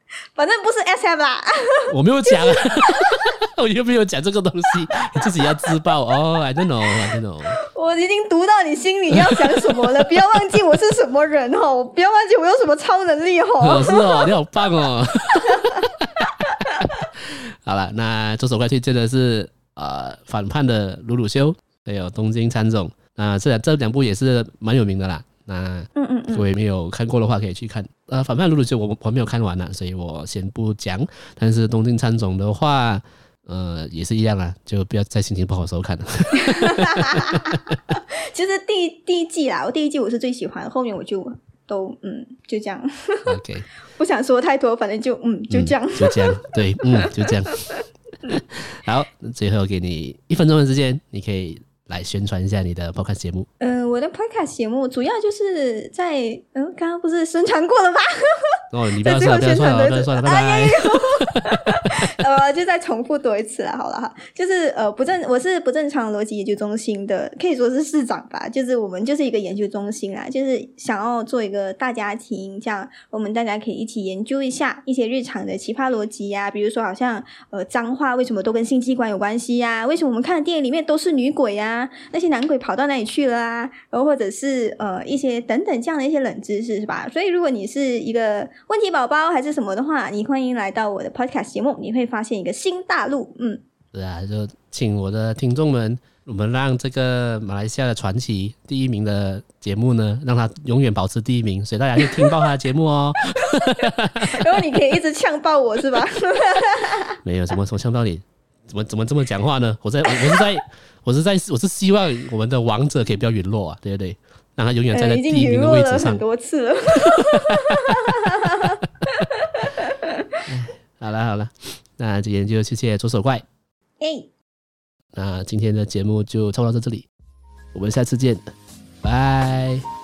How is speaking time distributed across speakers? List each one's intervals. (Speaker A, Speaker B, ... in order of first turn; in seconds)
Speaker A: 0.3-3.3, 7.6-14.3, 16.4-17.0, 25.9-26.5, 36.4-43.4, 44.0-48.4, 53.6-93.6, 102.0-102.3, 103.7-107.2, 114.9-120.4, 124.0-124.3
Speaker B: 1.9-7.6, 9.3-9.7, 13.6-16.3, 17.1-37.7, 43.3-43.6, 45.5-47.7, 48.3-53.5, 58.7-61.9, 93.9-104.6, 107.2-116.2, 117.0-117.9, 120.5-123.4, 125.1-127.1, 127.7-128.4, 129.0-129.8